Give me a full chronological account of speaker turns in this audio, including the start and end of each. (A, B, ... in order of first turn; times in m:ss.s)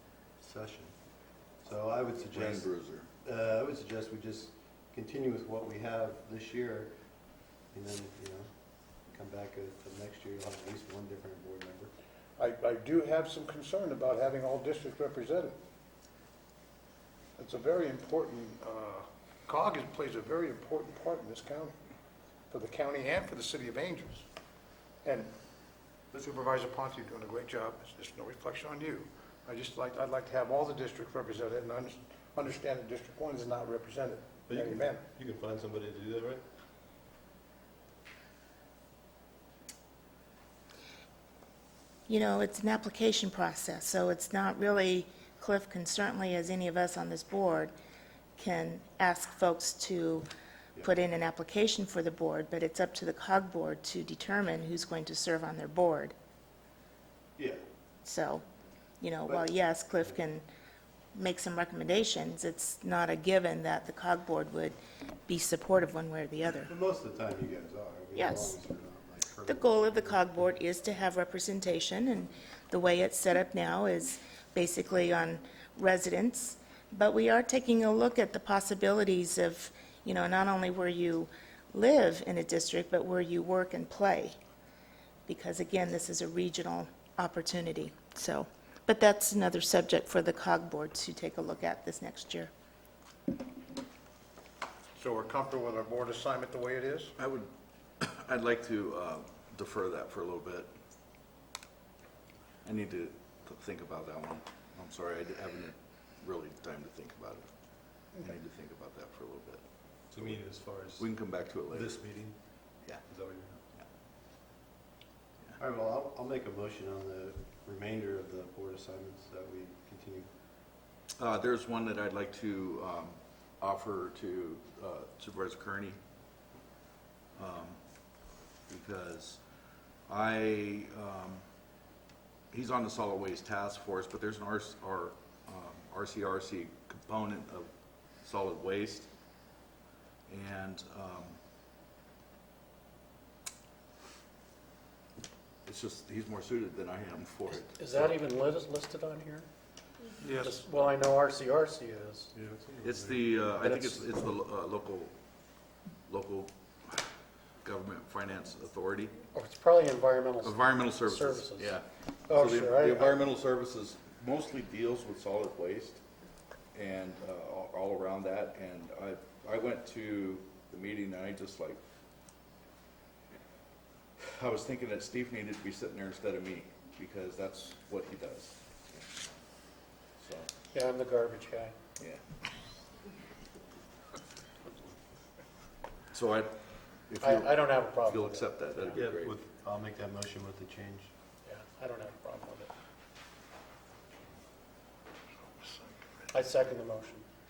0:00.4-0:01.0 A
0:01.6-0:02.7 A
0:02.3-0:03.1 B
0:03.2-0:06.9 A
0:07.7-0:08.5 A
0:09.1-0:11.9 A
0:12.4-0:15.6 C
0:17.4-0:21.8 C
0:22.5-0:24.3 C
0:25.0-0:25.3 C
0:26.1-0:35.0 C
0:34.5-0:36.4 A
0:42.1-0:47.7 D
0:48.4-0:50.2 D
0:50.8-0:56.1 D
0:58.0-0:58.4 D
0:59.0-1:00.4 D
1:01.2-1:04.8 D
1:05.3-1:06.7 D
1:06.6-1:10.5 A
1:08.2-1:08.5 D
1:09.5-1:24.3 D
1:25.3-1:32.5 D
1:35.0-1:37.1 C
1:37.2-1:37.5 B
1:38.0-1:40.7 B
1:42.6-1:47.5 B
1:48.2-1:49.6 B
1:50.1-1:51.1 A
1:51.0-1:51.9 B
1:51.7-1:52.4 A
1:53.0-1:53.6 A
1:55.6-2:00.3 A
2:01.2-2:06.0 B
2:07.4-2:07.8 B
2:08.7-2:09.4 B
2:10.1-2:11.4 B
2:12.5-2:19.1 B
2:20.3-2:21.4 B
2:25.6-2:28.2 B
2:27.5-2:29.5 E
2:30.2-2:30.6 C
2:30.3-2:32.3 E
2:32.3-2:34.0 A
2:32.8-2:35.2 B
2:36.1-2:36.5 B
2:37.6-2:39.2 B
2:39.3-2:43.2 E
2:40.4-2:46.0 B
2:46.7-2:51.8 B
2:54.2-2:59.1 B
3:00.2-3:00.5 B
3:00.7-3:01.8 E
3:06.1-3:09.4 B
3:07.2-3:09.1 E
3:08.9-3:11.1 A
3:11.4-3:12.7 E
3:15.5-3:16.4 C
3:16.3-3:17.3 E